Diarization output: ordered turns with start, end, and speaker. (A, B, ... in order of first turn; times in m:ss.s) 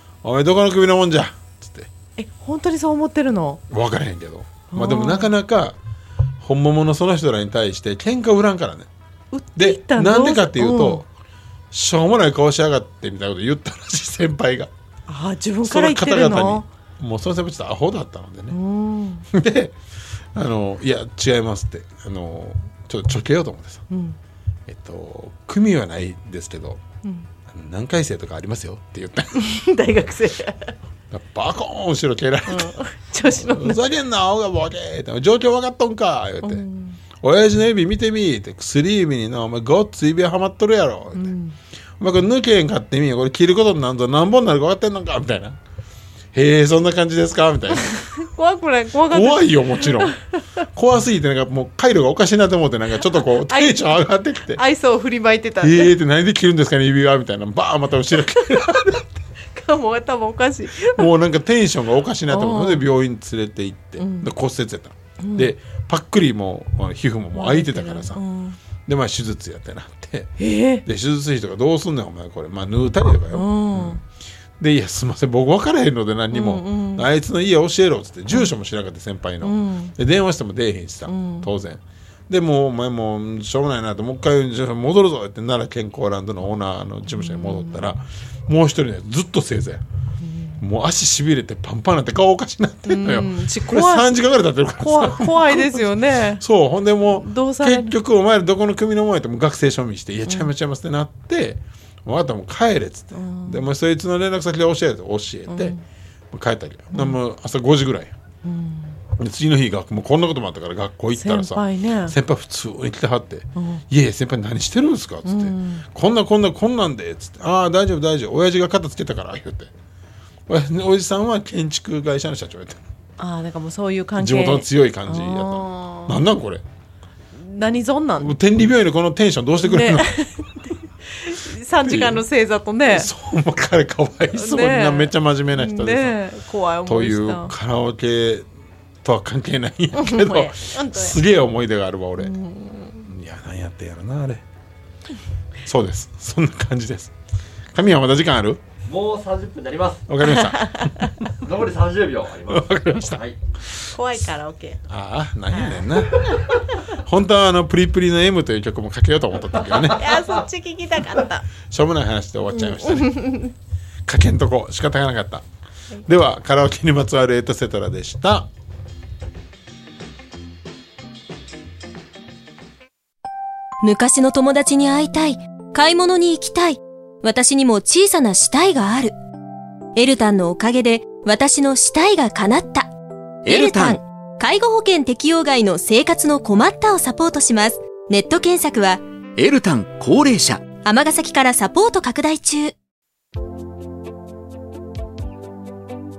0:00.2-0:01.9 A
0:02.2-0:03.6 B
0:03.7-0:05.8 A
0:04.7-0:05.3 B
0:06.4-0:08.9 A
0:09.3-0:11.0 B
0:09.6-0:11.1 A
0:11.7-0:14.7 A
0:15.1-0:16.7 B
0:15.6-0:18.6 A
0:18.5-0:19.3 B
0:19.3-0:19.8 A
0:20.3-0:23.8 A
0:23.9-0:24.2 B
0:24.7-0:26.8 A
0:27.5-0:29.4 A
0:29.4-0:30.7 B
0:31.1-0:36.6 A
0:32.5-0:33.8 B
0:36.4-0:37.0 B
0:37.2-0:41.3 A
0:41.2-0:41.6 B
0:42.0-0:45.6 A
0:46.3-0:48.0 A
0:48.1-0:50.2 B
0:49.1-0:50.2 A
0:50.8-0:54.6 A
0:53.3-0:56.0 B
0:55.6-0:59.2 A
0:59.5-1:01.1 B
1:00.8-1:08.2 A
1:02.3-1:02.9 B
1:04.0-1:04.3 B
1:05.2-1:05.5 B
1:07.3-1:08.6 B
1:08.9-1:10.3 A
1:10.4-1:10.8 B
1:10.8-1:14.0 A
1:13.3-1:14.0 B
1:14.6-1:29.8 A
1:16.3-1:17.1 B
1:19.4-1:20.0 B
1:21.1-1:21.5 B
1:27.1-1:27.8 B
1:30.2-1:30.6 B
1:30.6-1:45.8 A
1:32.9-1:34.2 B
1:34.8-1:36.4 B
1:37.0-1:37.9 B
1:43.1-1:43.6 B
1:45.5-1:45.8 B
1:46.3-1:48.1 A
1:48.4-1:49.0 B
1:49.2-1:59.7 A
1:51.1-1:52.2 B
1:53.6-1:53.8 B
1:55.3-1:55.9 B
2:00.5-2:02.8 A
2:03.2-2:06.2 B
2:04.2-2:06.6 A
2:07.4-2:08.4 B
2:08.2-2:10.1 A
2:09.6-2:13.1 B
2:11.8-2:12.2 A
2:12.9-2:16.2 A
2:14.3-2:17.5 B
2:16.9-2:18.5 A
2:19.0-2:22.3 A
2:19.9-2:21.2 B
2:22.2-2:23.1 B
2:23.0-2:24.4 A
2:25.6-2:27.1 A
2:27.7-2:28.6 A
2:28.9-2:30.1 C
2:30.1-2:31.2 A
2:30.2-2:31.1 B
2:31.4-2:33.4 C
2:32.5-2:33.2 A
2:33.9-2:34.8 B
2:34.9-2:40.3 A
2:35.5-2:36.6 B
2:39.9-2:41.4 B
2:41.7-2:43.4 A
2:42.5-2:43.5 B
2:44.1-2:45.4 A
2:46.0-2:48.5 A
2:53.8-2:59.1 D
3:00.0-3:02.9 D
3:03.5-3:04.0 E
3:03.5-3:09.0 D
3:09.4-3:10.8 E
3:10.8-3:12.8 D